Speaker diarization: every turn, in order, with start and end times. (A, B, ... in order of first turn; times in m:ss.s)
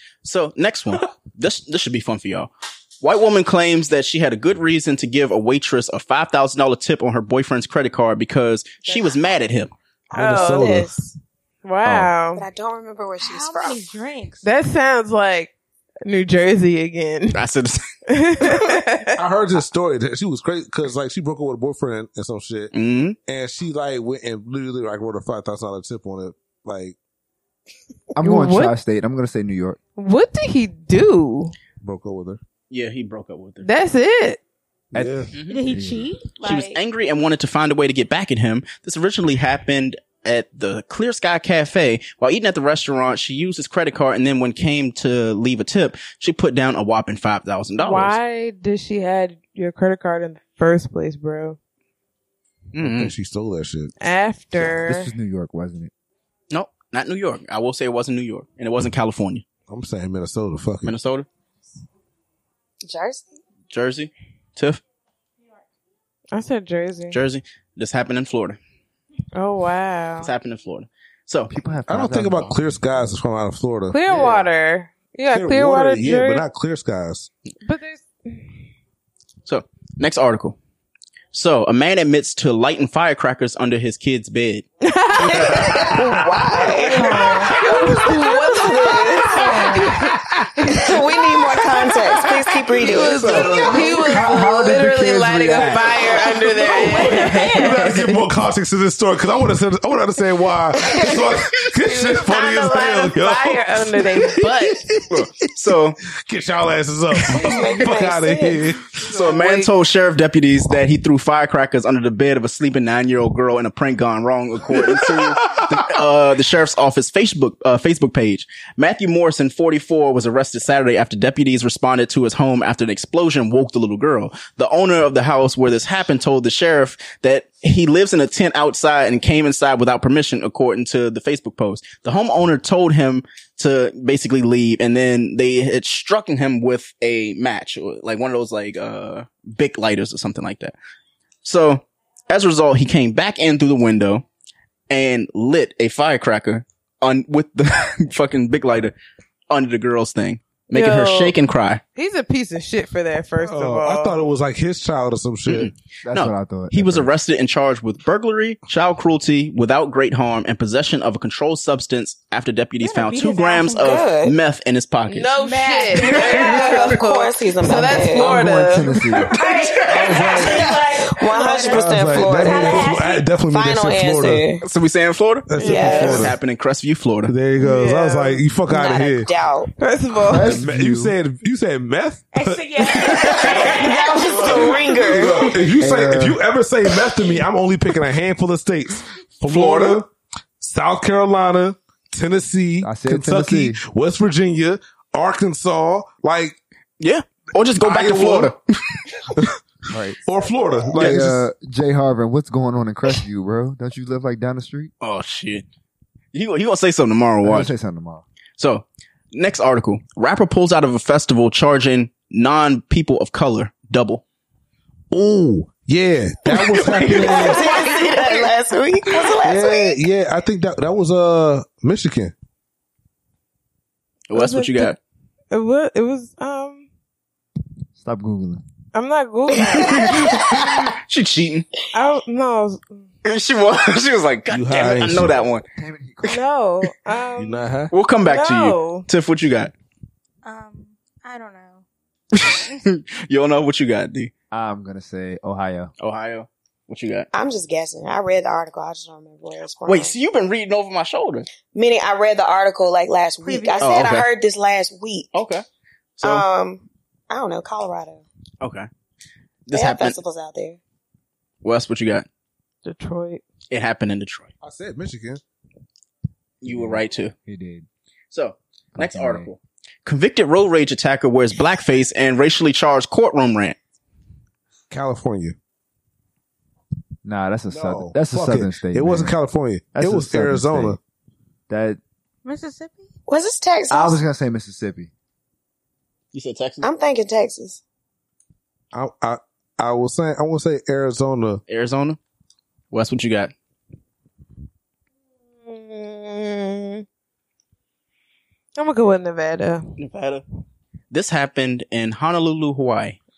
0:00.2-0:09.7 A
0:10.1-0:11.1 B
0:10.2-0:10.8 C
0:10.2-0:10.9 D
0:11.6-0:12.4 C
0:12.4-0:14.0 B
0:13.2-0:14.5 E
0:14.4-0:15.5 C
0:16.0-0:17.4 C
0:17.3-0:17.8 A
0:18.1-0:19.2 C
0:19.2-0:22.7 D
0:22.7-0:23.2 A
0:23.3-0:27.0 D
0:28.2-0:29.8 F
0:28.2-0:28.8 C
0:30.0-0:31.5 C
0:31.8-0:32.4 D
0:32.7-0:33.7 A
0:33.6-0:34.4 C
0:34.9-0:36.2 F
0:34.9-0:35.4 D
0:35.3-0:35.6 A
0:35.5-0:36.8 E
0:36.4-0:48.2 A
0:47.8-0:51.6 C
0:52.7-0:53.1 A
0:52.8-0:53.9 D
0:54.0-0:55.1 C
0:54.6-0:55.9 F
0:56.5-0:59.4 A
0:59.7-1:01.0 D
1:00.8-1:01.3 A
1:02.8-1:03.4 B
1:03.7-1:04.8 A
1:06.3-1:07.2 C
1:07.1-1:08.6 A
1:09.4-1:10.3 C
1:10.2-1:11.5 A
1:11.5-1:13.2 F
1:11.9-1:14.5 D
1:13.9-1:16.4 C
1:15.3-1:17.3 D
1:17.6-1:18.6 C
1:19.5-1:20.6 A
1:21.3-1:24.6 A
1:24.8-1:25.9 C
1:25.2-1:29.7 B
1:25.4-1:25.8 D
1:26.8-1:30.9 C
1:30.7-1:33.9 B
1:32.8-1:38.2 C
1:32.9-1:36.1 F
1:33.2-1:33.8 D
1:36.5-1:38.0 E
1:36.7-1:45.3 D
1:41.8-1:44.8 C
1:45.1-1:46.0 A
1:46.3-1:48.8 D
1:47.3-1:48.6 B
1:48.9-1:49.7 C
1:49.1-2:20.7 A
1:54.7-1:55.9 D
2:21.4-2:24.2 A
2:24.9-2:28.9 A
2:29.5-2:31.8 A
2:30.7-2:31.4 C
2:32.0-2:34.2 C
2:33.4-2:35.7 D
2:35.5-2:45.4 A
2:36.0-2:37.1 F
2:42.8-2:44.1 E
2:43.8-2:44.4 B
2:45.1-2:48.9 C
2:45.4-2:46.9 E
2:46.0-2:48.5 B
2:47.8-2:49.4 F
2:49.3-2:53.3 E
2:49.9-2:50.8 D
2:50.6-2:52.9 B
2:51.7-2:54.5 D
2:53.5-2:54.6 B
2:54.6-2:57.3 A
2:55.5-2:56.4 D
2:55.6-2:56.2 C
2:55.6-2:56.3 B
2:57.3-2:59.3 D
2:57.6-2:58.5 C
2:58.7-2:59.7 B
2:59.8-3:00.6 C
3:00.3-3:01.2 F
3:00.4-3:10.1 D
3:02.3-3:04.4 E
3:03.4-3:05.6 B
3:05.8-3:06.4 F
3:09.5-3:10.0 A
3:10.6-3:16.6 D
3:12.8-3:13.8 F
3:17.0-3:18.6 A
3:17.8-3:18.5 D
3:19.9-3:20.2 F
3:20.2-3:21.5 D
3:20.9-3:24.9 F
3:25.0-3:25.6 A
3:26.3-3:27.7 A
3:27.4-3:28.2 F
3:28.6-3:34.2 A
3:35.1-3:37.8 D
3:36.8-3:40.0 B
3:39.4-3:42.3 D
3:44.3-3:45.0 A
3:44.3-3:45.0 C
3:45.5-3:46.9 C
3:48.0-3:48.6 F
3:48.9-3:50.6 C
3:49.6-3:50.7 B
3:49.8-3:51.7 A
3:51.9-3:53.1 C
3:53.2-3:55.6 A
3:54.5-3:55.4 D
3:55.8-3:56.4 F
3:56.2-3:57.6 C
3:57.4-3:57.9 D
3:57.9-3:59.7 A
3:58.2-3:59.1 C
4:00.4-4:01.8 E
4:02.3-4:04.3 A
4:04.5-4:05.9 F
4:06.0-4:07.3 A
4:07.3-4:10.2 B
4:09.9-4:11.5 A
4:11.7-4:15.3 B
4:13.4-4:14.0 E
4:13.8-4:14.3 A
4:15.3-4:15.6 A
4:16.2-4:16.5 A
4:16.2-4:18.2 B
4:18.6-4:18.9 A
4:19.7-4:20.2 A
4:19.7-4:20.8 B
4:21.6-4:22.3 A
4:22.8-4:23.4 C
4:23.7-4:24.5 A
4:24.6-4:25.4 D
4:26.6-4:27.3 A
4:26.6-4:27.9 F
4:28.3-4:33.8 A
4:29.0-4:29.5 F
4:34.9-4:35.6 D
4:37.2-4:39.4 F
4:37.7-4:41.0 D
4:39.9-4:41.0 F
4:41.7-4:42.0 F
4:42.4-4:43.1 E
4:43.3-4:44.2 B
4:43.9-4:45.1 F
4:46.3-4:46.9 A
4:46.8-4:47.8 B
4:48.9-4:51.6 D
4:51.7-4:52.2 A
4:52.9-4:53.5 A
4:55.6-4:57.0 C
4:58.8-5:00.0 C
5:00.0-5:00.4 A
5:01.1-5:03.2 A